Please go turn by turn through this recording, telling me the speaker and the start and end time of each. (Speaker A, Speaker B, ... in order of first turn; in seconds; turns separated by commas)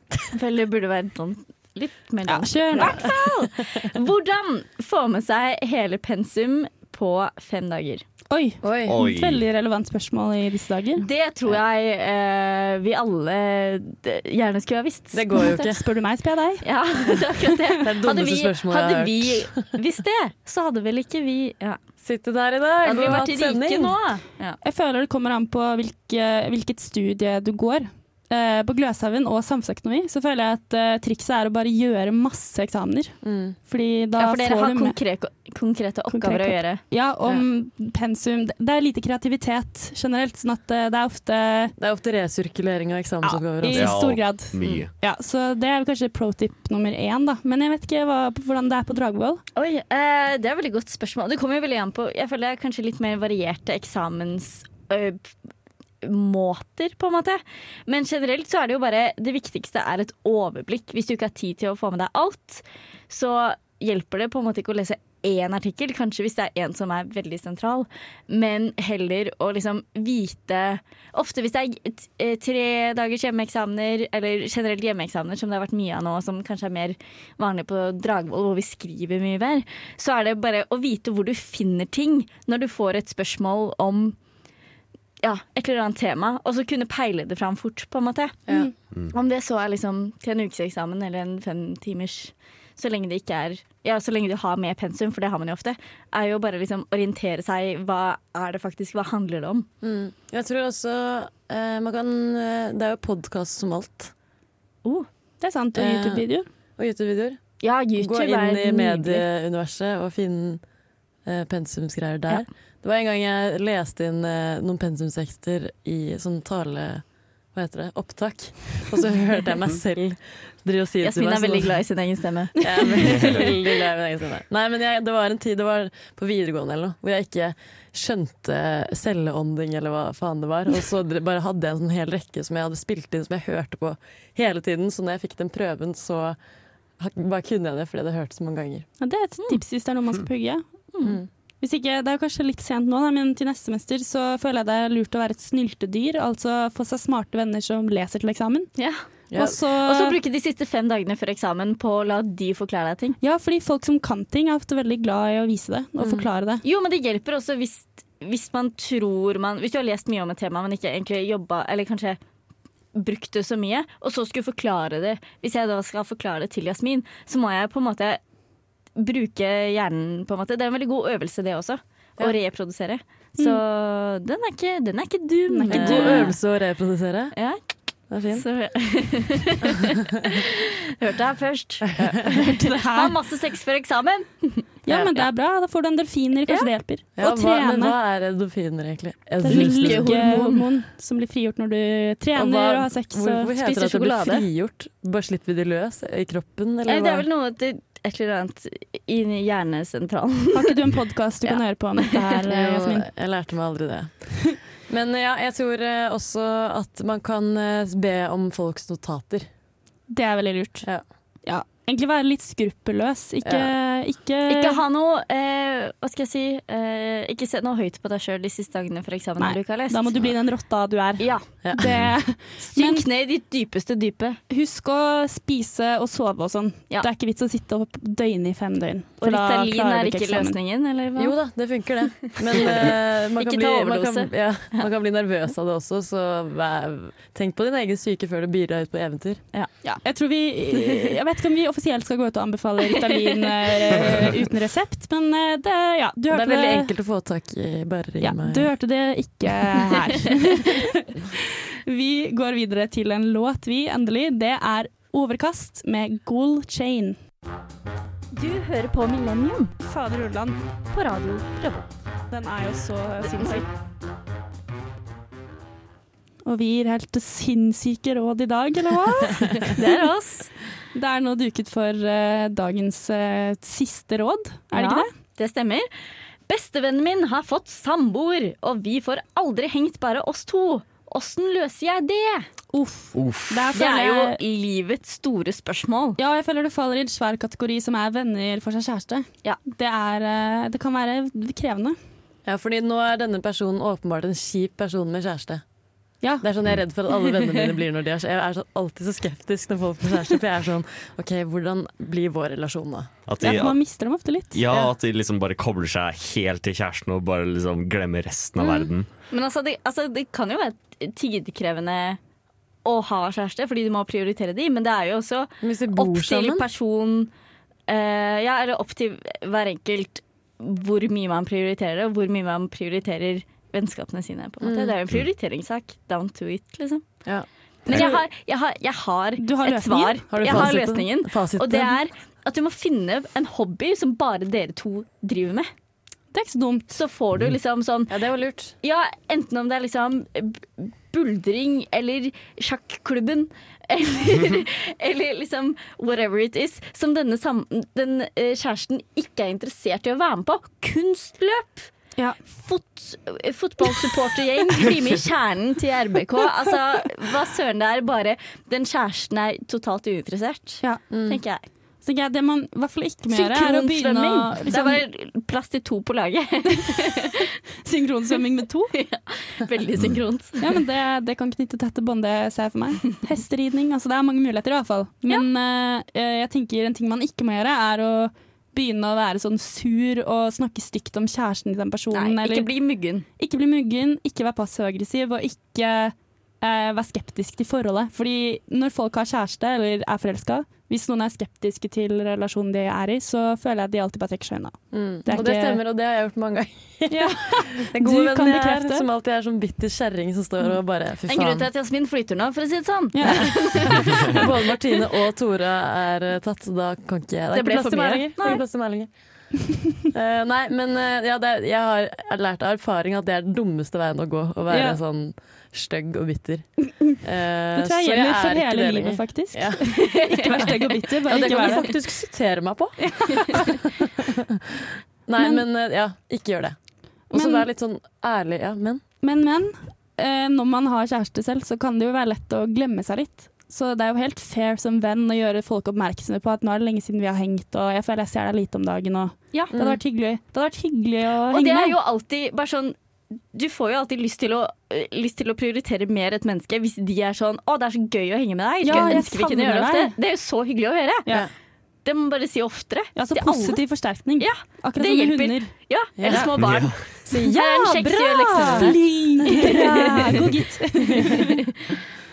Speaker A: 0.3-8.0, Speaker B: 2.2-3.0, Speaker C: 2.7-3.1, Speaker B: 8.3-11.1, Speaker C: 8.6-8.9, Speaker D: 8.9-9.4, Speaker A: 11.0-15.4, Speaker C: 15.1-15.8, Speaker B: 15.3-17.5, Speaker A: 16.6-21.8, Speaker C: 17.8-19.6, Speaker C: 22.0-24.0, Speaker A: 22.8-24.6, Speaker B: 24.6-33.1, Speaker C: 33.2-33.6, Speaker B: 33.6-35.0, Speaker A: 34.2-36.8, Speaker B: 36.1-41.7, Speaker C: 41.8-44.0, Speaker B: 43.2-49.4, Speaker D: 43.7-44.9, Speaker A: 49.5-55.3, Speaker A: 56.0-84.2, Speaker A: 85.2-88.5, Speaker A: 89.1-99.7, Speaker C: 99.8-104.1, Speaker B: 105.4-106.5, Speaker C: 105.8-107.4, Speaker A: 107.6-109.2, Speaker C: 108.0-110.6, Speaker C: 111.2-121.8, Speaker A: 121.0-123.6, Speaker C: 122.6-136.4, Speaker C: 137.0-138.9, Speaker B: 139.0-140.6, Speaker B: 141.6-148.7, Speaker A: 148.8-149.0, Speaker C: 149.3-149.6, Speaker B: 149.3-150.2, Speaker A: 149.8-153.2, Speaker B: 153.2-156.6, Speaker C: 156.0-156.2, Speaker A: 156.6-162.2, Speaker A: 162.9-168.2, Speaker A: 168.9-176.4, Speaker B: 173.4-173.6, Speaker B: 175.5-176.3, Speaker C: 175.7-177.3, Speaker C: 178.1-178.4, Speaker A: 178.3-185.3, Speaker C: 181.9-182.4, Speaker B: 182.3-183.1, Speaker B: 184.9-188.0, Speaker C: 187.2-190.4, Speaker B: 189.4-193.6, Speaker A: 189.5-190.6, Speaker C: 192.3-197.2, Speaker A: 193.6-194.5, Speaker A: 196.9-200.7, Speaker B: 200.5-203.1, Speaker A: 201.4-202.3, Speaker C: 202.5-204.3, Speaker C: 204.9-209.5, Speaker B: 210.1-210.9, Speaker B: 211.4-214.8, Speaker C: 213.4-213.7, Speaker A: 214.5-220.2, Speaker B: 219.4-223.1, Speaker A: 221.2-221.4, Speaker A: 222.7-224.4, Speaker B: 224.5-230.6, Speaker A: 229.2-231.4, Speaker C: 231.2-239.4, Speaker A: 232.3-234.9, Speaker B: 239.8-246.9, Speaker C: 246.3-248.7, Speaker B: 248.2-257.2, Speaker A: 258.3-259.7, Speaker B: 259.8-260.6, Speaker A: 260.9-261.9, Speaker B: 262.3-263.7, Speaker A: 263.2-263.6, Speaker B: 266.4-269.8, Speaker A: 269.6-270.5, Speaker B: 270.9-275.1, Speaker A: 274.7-275.9, Speaker A: 276.5-282.5, Speaker B: 282.7-284.4, Speaker D: 283.1-283.7, Speaker A: 283.7-286.2, Speaker B: 286.2-292.0, Speaker C: 292.4-295.6, Speaker C: 296.4-303.1, Speaker D: 303.3-303.8, Speaker B: 303.4-304.6, Speaker D: 304.5-309.1, Speaker C: 308.6-308.9, Speaker A: 309.3-312.2, Speaker A: 312.9-317.3, Speaker C: 315.6-316.6, Speaker A: 317.9-327.0, Speaker C: 324.6-325.0, Speaker C: 327.2-328.1, Speaker A: 327.9-335.7, Speaker B: 327.9-328.2, Speaker B: 329.4-330.3, Speaker C: 330.3-332.0, Speaker B: 336.3-336.9, Speaker A: 336.9-338.2, Speaker C: 338.1-338.7, Speaker A: 338.8-351.9, Speaker A: 352.5-361.6, Speaker C: 361.1-361.4, Speaker B: 362.0-365.0, Speaker A: 363.3-367.5, Speaker B: 366.9-368.9, Speaker A: 368.9-370.6, Speaker B: 370.6-382.7, Speaker A: 382.1-383.2, Speaker B: 383.4-395.8, Speaker C: 394.9-401.7, Speaker B: 397.1-399.1, Speaker A: 401.2-404.5, Speaker B: 403.1-404.4, Speaker C: 403.3-409.1, Speaker A: 407.5-408.6, Speaker C: 410.1-420.7, Speaker B: 414.7-415.0, Speaker B: 417.7-421.9, Speaker A: 419.9-421.9, Speaker C: 421.2-426.8, Speaker A: 423.1-423.7, Speaker B: 425.4-425.6, Speaker C: 427.3-429.0, Speaker B: 427.3-427.6, Speaker B: 429.2-441.9, Speaker C: 439.7-440.0, Speaker A: 441.5-442.9, Speaker A: 443.5-451.3, Speaker B: 448.8-450.1, Speaker A: 452.0-453.8, Speaker B: 453.1-455.7, Speaker A: 454.4-459.0, Speaker C: 456.2-460.4, Speaker D: 456.3-457.0, Speaker B: 458.7-461.5, Speaker A: 459.5-459.9